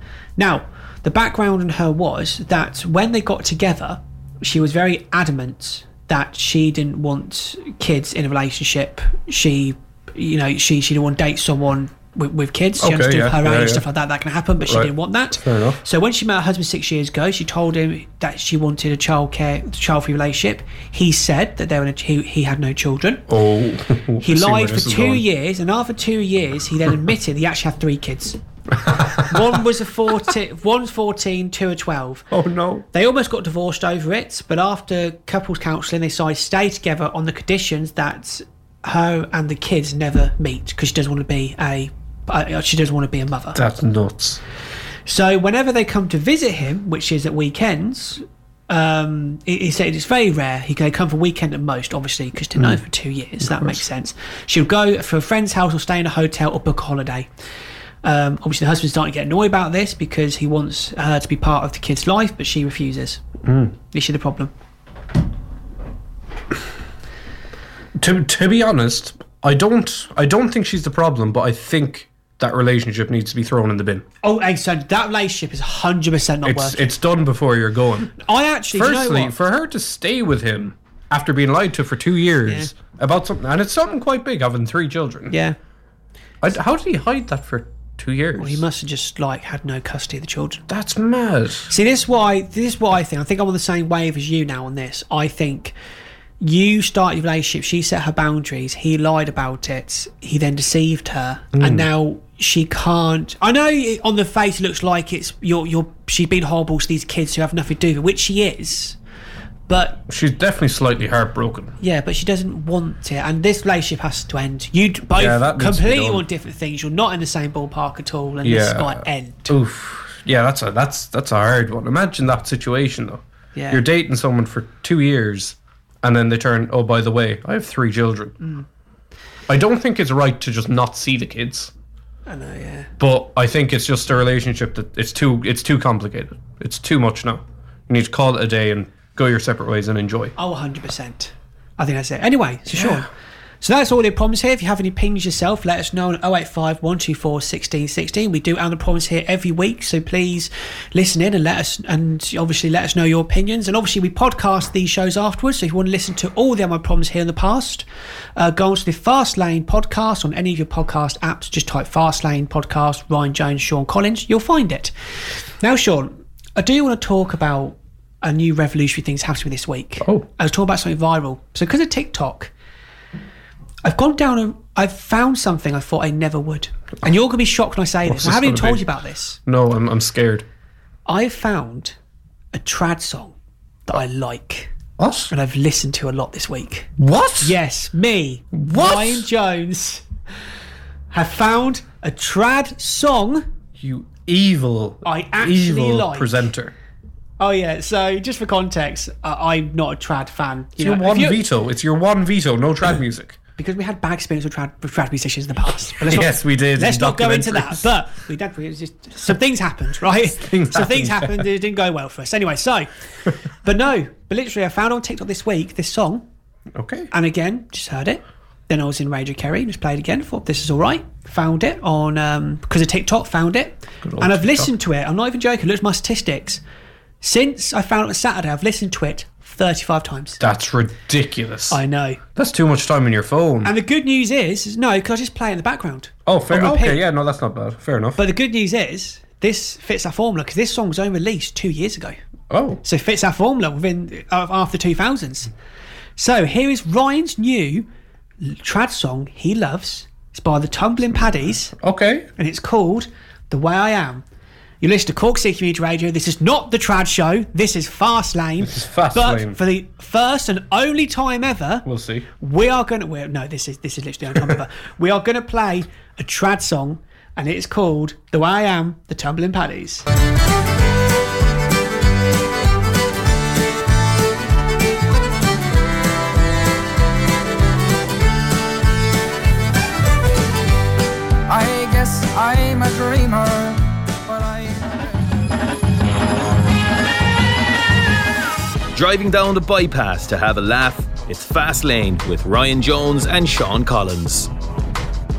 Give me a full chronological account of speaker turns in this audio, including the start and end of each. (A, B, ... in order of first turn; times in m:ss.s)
0:00.4-0:23.2 A
0:12.8-0:13.8 B
0:14.6-0:15.8 B
0:23.3-0:25.2 B
0:24.2-0:28.4 A
0:28.8-0:29.5 B
0:29.1-0:32.3 A
0:32.3-0:32.8 B
0:32.9-0:43.6 A
0:43.5-0:44.4 B
0:45.0-0:57.3 A
0:53.4-0:53.8 B
0:58.0-1:03.2 A
1:03.4-1:03.8 B
1:03.9-1:04.5 A
1:08.0-1:14.0 B
1:14.2-1:16.9 A
1:16.4-1:18.2 B
1:18.2-1:19.3 A
1:18.7-1:25.3 B
1:22.5-1:22.7 A
1:25.3-1:25.6 A
1:26.4-1:28.6 B
1:28.4-1:30.6 A
1:30.7-1:31.7 B
1:31.7-1:35.7 A
1:36.4-1:49.0 A
1:41.5-1:41.9 B
1:49.7-1:50.0 A
1:50.1-1:51.8 B
1:51.8-1:59.6 A
1:55.1-1:56.2 B
1:58.4-2:08.4 B
2:03.5-2:03.8 A
2:08.4-2:08.6 A
2:09.5-2:11.7 B
2:12.3-2:12.9 A
2:13.0-2:20.3 B
2:20.4-2:23.1 A
2:22.7-2:23.1 B
2:23.6-2:37.8 A
2:38.4-2:44.9 A
2:45.6-2:52.5 A
2:50.0-2:50.3 B
2:53.8-2:59.4 A
2:58.0-2:58.8 B
2:59.4-3:00.4 B
3:01.0-3:01.9 A
3:02.5-3:03.4 A
3:03.9-3:04.7 A
3:05.0-3:05.3 B
3:05.3-3:06.9 A
3:07.0-3:07.6 B
3:07.4-3:10.0 A
3:08.5-3:09.3 B
3:11.1-3:13.4 A
3:13.8-3:16.7 B
3:15.0-3:16.5 A
3:17.4-3:21.4 A
3:20.8-3:23.4 B
3:23.6-3:32.9 A
3:26.0-3:27.8 B
3:30.2-3:31.4 B
3:33.5-3:36.2 A
3:36.7-3:37.1 B
3:37.1-3:46.6 A
3:44.0-3:44.7 B
3:47.2-3:50.4 A
3:50.4-3:51.8 B
3:51.7-3:52.2 A
3:52.3-3:53.7 B
3:53.6-3:57.0 A
3:56.2-3:58.2 B
3:58.2-4:02.2 A
4:02.5-4:02.8 B
4:02.8-4:05.5 A
4:06.2-4:07.9 A
4:08.4-4:11.7 A
4:11.8-4:12.3 B
4:12.4-4:14.2 A
4:14.8-4:21.8 A
4:18.6-4:19.6 B
4:21.8-4:22.3 B
4:22.4-4:30.0 A
4:41.5-4:45.3 C
4:48.9-4:54.5 D